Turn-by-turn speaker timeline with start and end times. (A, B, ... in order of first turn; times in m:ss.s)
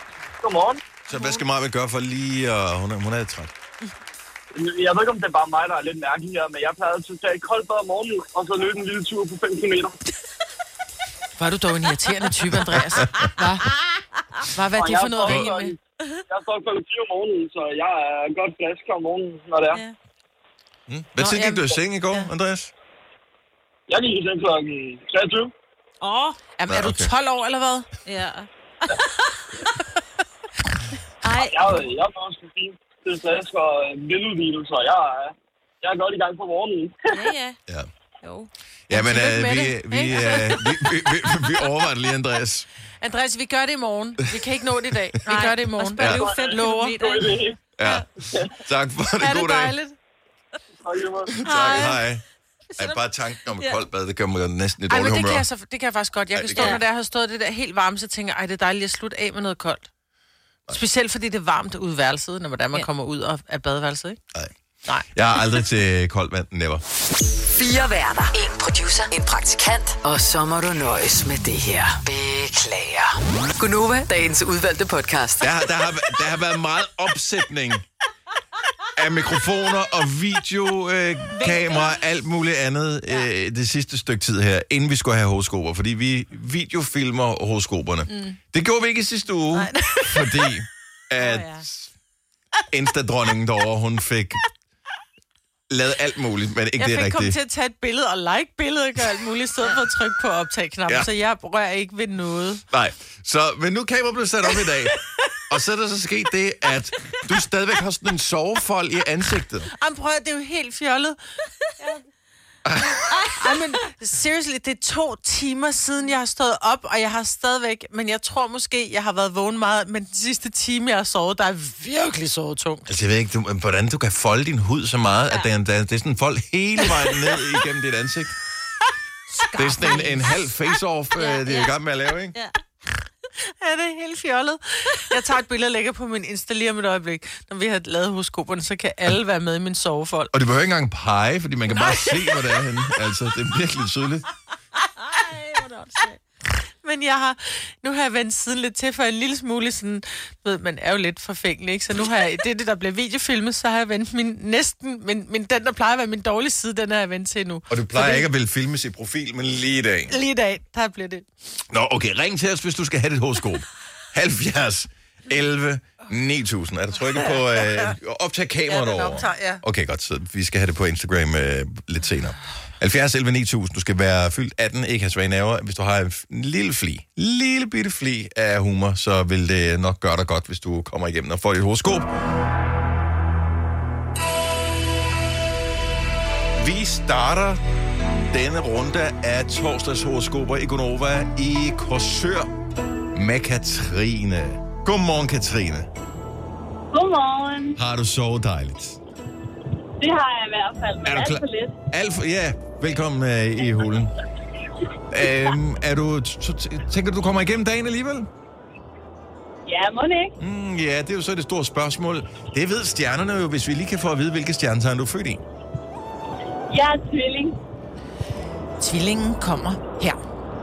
0:00.4-0:00.9 A
0:01.1-0:03.5 B
0:04.5-0:10.0 A
0:11.4-0:13.7 C
0:14.5-0:15.8 C
0:14.8-0:15.8 A
0:16.3-0:19.8 A
0:20.9-0:22.7 B
0:21.2-0:22.3 C
0:23.9-0:25.5 A
0:26.0-0:26.4 D
0:26.6-0:27.9 C
0:26.7-0:27.1 B
0:28.1-0:29.0 D
0:31.2-0:31.7 D
0:31.4-0:37.1 A
0:37.1-0:37.6 D
0:38.2-0:38.5 D
0:38.9-0:42.7 B
0:38.9-0:40.6 C
0:43.0-0:47.0 C
0:45.3-0:48.0 D
0:46.0-0:46.2 B
0:46.1-0:47.6 A
0:47.8-0:49.8 B
0:48.2-0:48.6 A
0:49.2-0:50.0 C
0:50.8-0:51.4 A
0:51.4-0:52.2 B
0:51.5-0:52.0 D
0:52.8-0:55.5 B
0:54.9-0:59.9 C
0:56.4-0:56.8 B
0:56.6-0:56.8 D
1:00.7-1:04.2 C
1:05.1-1:06.8 B
1:07.5-1:15.5 E
1:15.4-1:17.8 B
1:18.9-1:31.9 B
1:21.4-1:22.0 D
1:28.1-1:28.4 C
1:29.6-1:30.5 C
1:31.2-1:31.6 D
1:32.7-1:34.4 B
1:35.7-1:37.4 B
1:36.8-1:42.6 C
1:42.7-1:49.7 B
1:49.7-1:51.2 C
1:52.6-1:53.1 B
1:53.1-1:53.4 D
1:53.4-2:02.9 C
2:02.9-2:08.3 B
2:09.3-2:10.5 D
2:09.6-2:12.4 B
2:11.2-2:11.8 D
2:13.4-2:20.3 C
2:20.3-2:24.3 B
2:25.0-2:26.2 D
2:26.8-2:38.3 C
2:37.7-2:40.1 B
2:40.1-2:41.3 C
2:41.7-3:02.1 B
2:47.2-2:47.9 C
2:48.7-2:49.6 C
3:06.6-3:07.6 B
3:08.3-3:12.5 B
3:13.1-3:15.9 B
3:16.9-3:17.8 F
3:17.8-3:19.0 B
3:20.0-3:21.8 F
3:21.0-3:24.2 B
3:25.1-3:28.3 B
3:29.7-3:30.3 F
3:30.4-3:35.4 B
3:36.7-3:37.6 F
3:38.8-3:40.2 C